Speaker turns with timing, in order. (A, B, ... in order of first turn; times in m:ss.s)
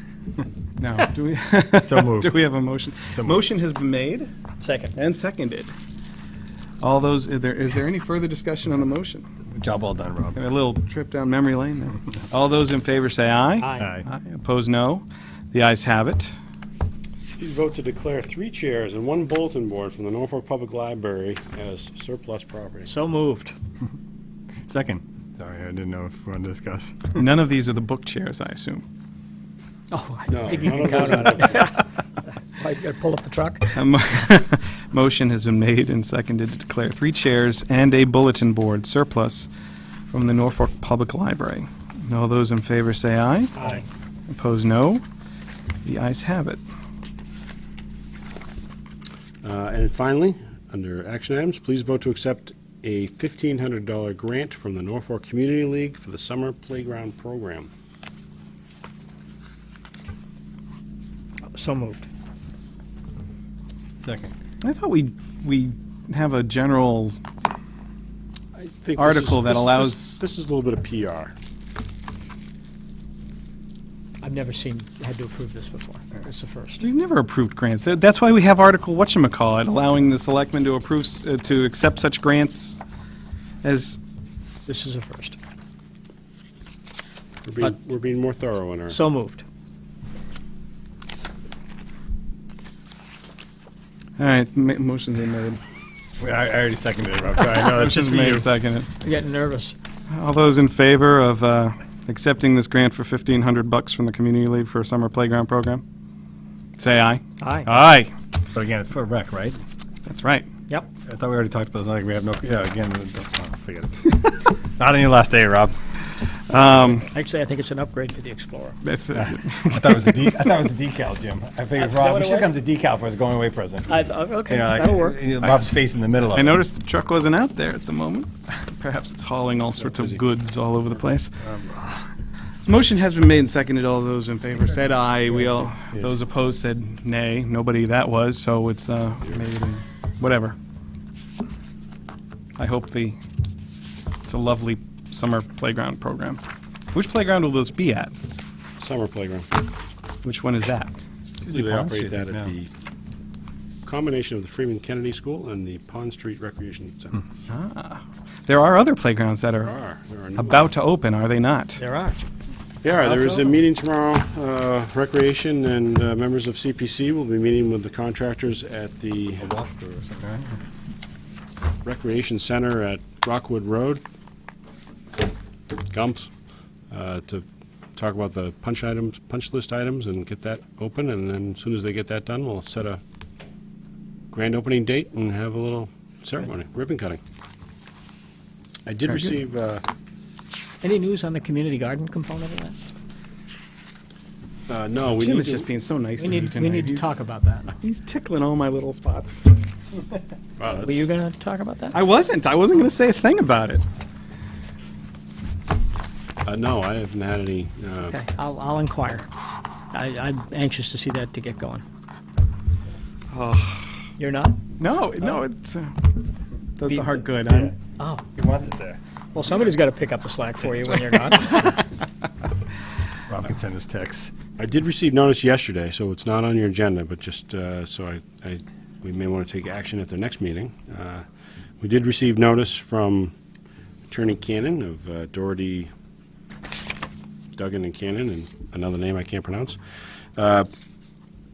0:00.8-0:04.3 A
0:01.8-0:02.4 B
0:03.1-0:03.4 B
0:04.6-0:05.0 C
0:04.9-0:05.7 A
0:06.8-0:09.2 A
0:09.5-0:10.4 B
0:10.3-0:16.4 A
0:13.6-0:13.9 C
0:13.8-0:14.1 B
0:17.4-0:22.9 D
0:22.8-0:23.5 C
0:24.6-0:27.1 B
0:27.1-0:28.8 A
0:29.9-0:31.9 C
0:30.3-0:31.7 D
0:32.5-0:33.8 C
0:33.7-0:39.5 A
0:40.1-0:43.6 A
0:43.6-0:43.8 C
0:44.3-0:45.0 A
0:45.8-0:46.6 A
0:49.4-0:57.7 D
1:01.5-1:02.1 C
1:04.0-1:04.3 B
1:04.6-1:07.2 A
1:08.6-1:11.3 D
1:09.0-1:10.2 A
1:14.2-1:16.8 C
1:16.8-1:22.8 A
1:23.6-1:24.0 A
1:24.6-1:25.4 C
1:27.4-1:29.0 D
1:28.9-1:29.4 C
1:34.2-1:35.6 A
1:36.2-1:38.5 B
1:37.6-1:38.9 A
1:39.0-1:39.8 C
1:40.1-1:45.8 A
1:46.8-1:48.1 A
1:47.4-1:47.7 C
1:48.5-1:49.6 B
1:50.0-1:50.5 A
1:51.0-1:55.7 B
1:56.5-1:57.1 A
1:56.8-1:58.8 C
1:58.8-2:00.4 A
1:59.1-2:04.0 B
2:01.8-2:02.5 C
2:03.9-2:05.2 C
2:04.5-2:06.6 B
2:06.3-2:11.3 A
2:11.4-2:12.1 B
2:12.6-2:20.6 A
2:22.6-2:23.2 A
2:24.2-2:26.4 A
2:26.9-2:28.1 A
2:28.8-2:29.6 D
2:30.2-2:31.0 A
2:31.4-2:32.7 D
2:31.5-2:32.5 B
2:33.8-2:37.2 D
2:37.5-2:39.7 A
2:39.6-2:40.7 D
2:40.4-2:41.8 A
2:41.8-2:42.2 C
2:42.8-2:49.5 D
2:43.1-2:43.5 C
2:49.4-2:50.5 B
2:51.8-2:54.0 D
2:55.9-2:56.3 D
2:56.9-2:57.4 D
2:58.0-3:03.0 D
3:04.3-3:07.2 D
3:08.8-3:09.8 D
3:09.1-3:09.3 A
3:10.8-3:12.8 C
3:14.7-3:15.7 D
3:15.2-3:17.1 A
3:16.2-3:17.7 C
3:17.8-3:19.4 A
3:20.6-3:21.1 D
3:20.7-3:22.0 C
3:21.9-3:23.8 A
3:26.4-3:28.2 D
3:28.1-3:29.3 C
3:29.9-3:31.8 C
3:33.3-3:34.0 A
3:34.2-3:34.6 C
3:34.8-3:36.1 A
3:36.8-3:37.7 A
3:36.9-3:37.3 C
3:37.5-3:37.7 B
3:38.0-3:38.3 C
3:38.3-3:39.0 B
3:39.3-3:41.8 C
3:43.3-3:44.3 B
3:44.6-3:51.2 D
3:51.8-3:53.3 D
3:54.1-3:55.9 D
3:57.6-3:59.8 D
4:00.4-4:00.7 D